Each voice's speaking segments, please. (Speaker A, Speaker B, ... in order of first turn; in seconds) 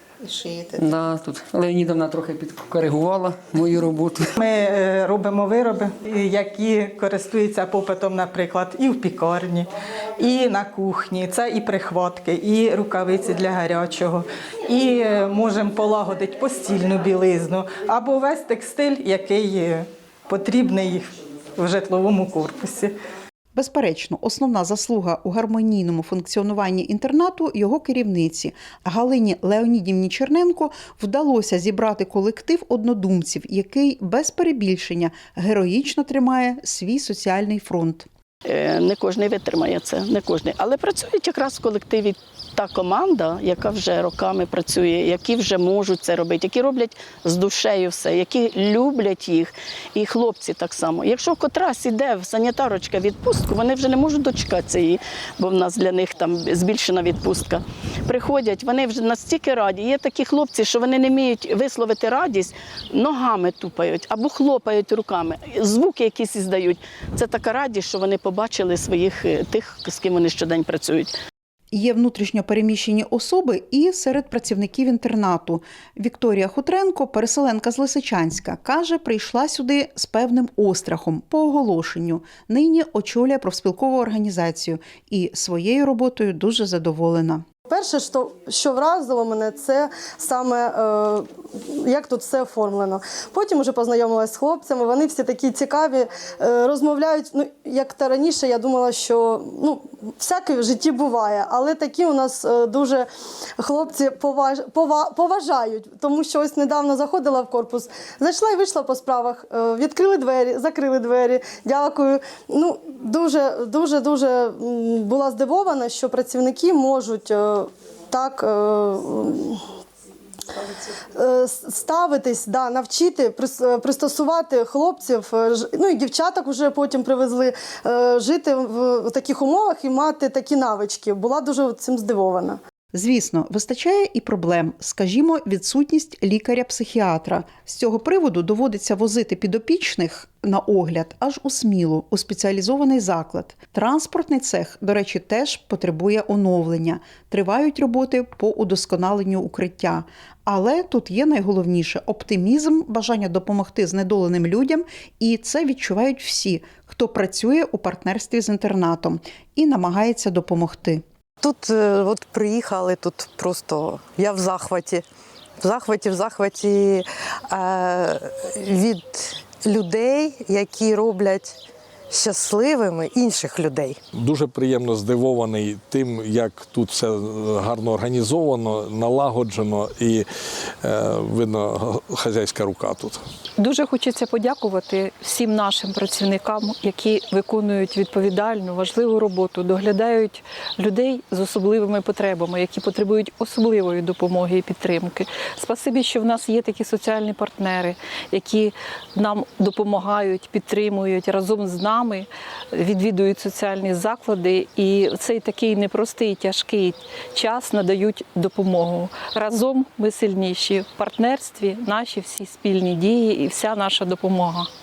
Speaker A: 0.3-0.7, 23.6-38.1, 71.7-87.4, 132.9-161.0
Speaker B: 0.8-4.3
Speaker C: 4.4-22.9
Speaker D: 38.5-71.1
Speaker E: 87.7-103.1, 103.6-119.6, 121.2-132.6
Speaker F: 161.4-165.1, 165.6-171.6, 172.1-174.0
Speaker G: 174.2-180.2, 180.8-183.2
Speaker H: 183.6-214.7